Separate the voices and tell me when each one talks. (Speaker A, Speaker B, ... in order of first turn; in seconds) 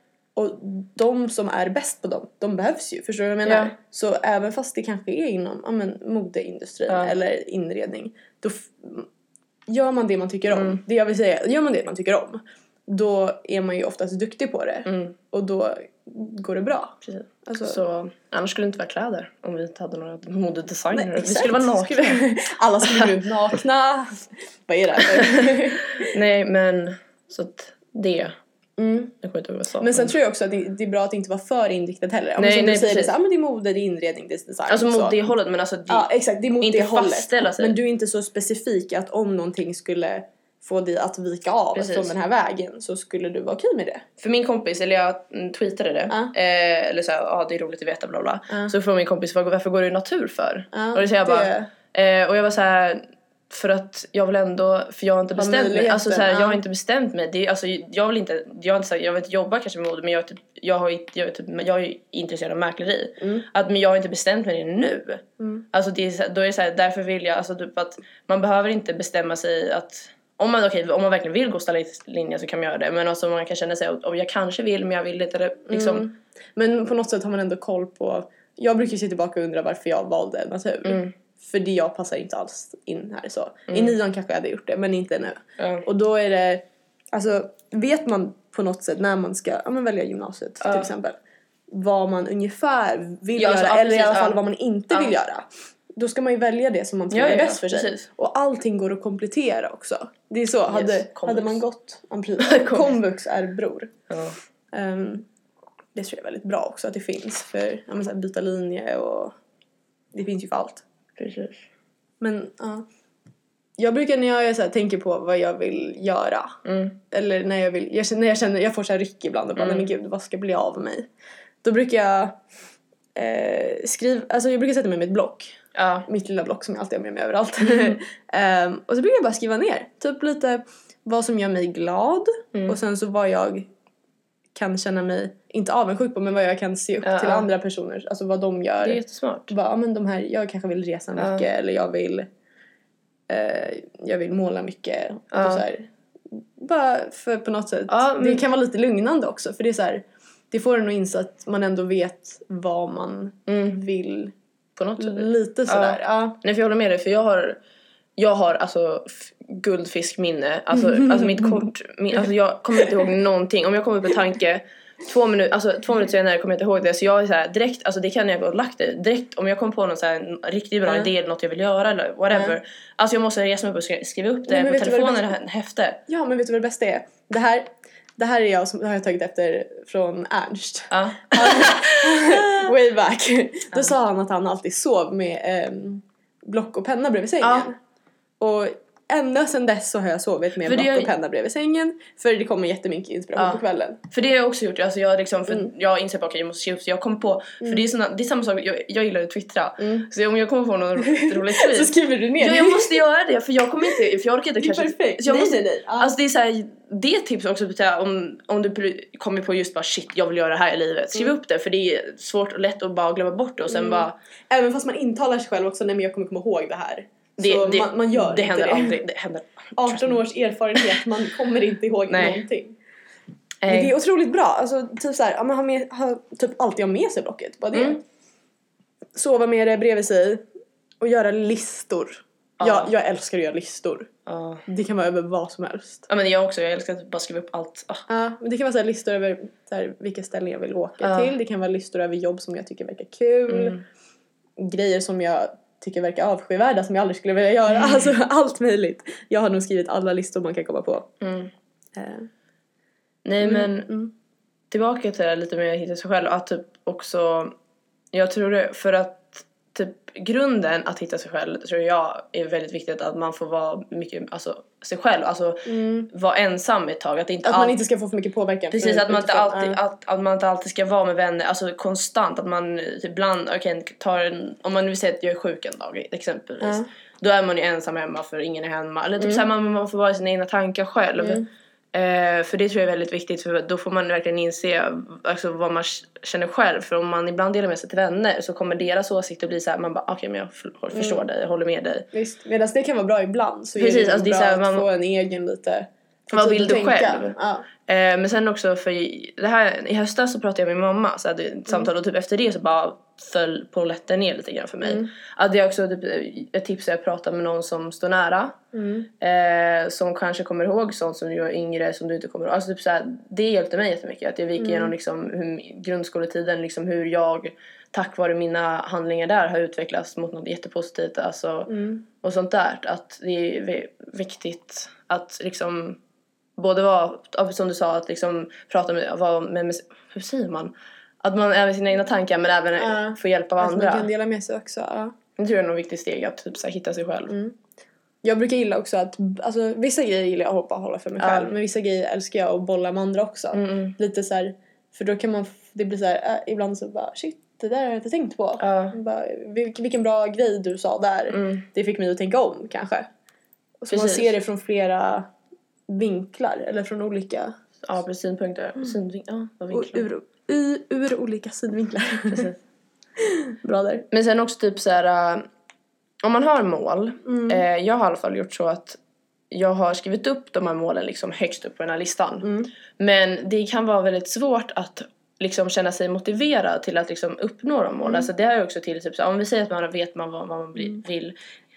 Speaker A: 0.4-9.1, 9.7-17.8, 20.9-26.1, 28.8-29.1, 29.8-35.2, 35.9-44.0, 50.7-51.7, 55.4-56.6, 75.7-91.2, 91.7-103.9, 104.7-105.2, 106.0-109.4, 110.1-110.8, 112.2-112.9, 113.8-116.6, 117.1-121.1, 121.6-122.4, 123.2-133.7, 134.6-142.3, 143.3-154.3, 155.0-156.4, 160.7-161.7, 172.3-172.6, 174.5-175.3, 176.1-187.8, 188.4-194.0, 197.6-197.9, 199.8-200.1, 201.0-203.0, 204.6-206.1, 213.7-219.0, 219.8-222.8, 223.7-228.0, 229.2-230.4, 231.0-234.1, 234.7-236.1, 238.1-243.8, 244.6-251.1, 251.9-252.3, 253.4-254.1, 265.7-266.1, 267.4-269.8, 276.6-276.9, 281.2-281.4, 290.9-291.2, 292.1-297.7, 304.8-305.1, 308.7-309.1, 314.6-314.9, 321.7-322.0, 332.8-335.1, 337.3-337.6, 338.2-353.1, 353.8-355.3, 355.9-357.5, 359.7-362.5, 363.2-364.1, 367.2-367.6, 372.4-372.7, 378.0-378.3
Speaker B: 3.5-3.8, 10.5-10.8, 14.9-15.2, 17.0-22.3, 22.8-23.1, 25.1-28.4, 29.2-30.1, 32.4-33.1, 34.7-36.1, 36.6-37.8, 41.8-42.1, 44.2-76.1, 80.8-81.1, 83.7-84.0, 85.6-85.9, 90.6-90.9, 93.4-94.4, 97.1-98.1, 100.7-101.6, 102.4-103.0, 104.1-104.4, 111.2-111.7, 116.7-117.0, 119.6-119.9, 125.8-126.1, 137.0-137.5, 138.8-139.5, 141.2-141.4, 145.3-145.6, 147.9-148.4, 153.5-153.8, 154.8-157.6, 158.2-176.0, 180.9-182.7, 187.4-187.7, 190.6-191.1, 193.4-214.2, 217.4-220.2, 220.8-221.0, 222.1-222.4, 223.6-223.9, 227.7-228.0, 232.6-232.9, 234.3-234.6, 236.1-238.1, 241.0-241.3, 243.5-243.8, 251.2-251.5, 253.2-253.9, 254.7-257.5, 258.1-267.8, 268.7-292.1, 293.8-294.9, 296.3-308.6, 309.2-326.0, 326.6-334.1, 335.4-337.4, 341.2-341.5, 343.5-344.0, 348.6-349.0, 351.3-351.7, 353.9-354.3, 357.8-360.1, 362.3-362.6, 364.1-365.5, 366.2-369.0, 369.5-381.4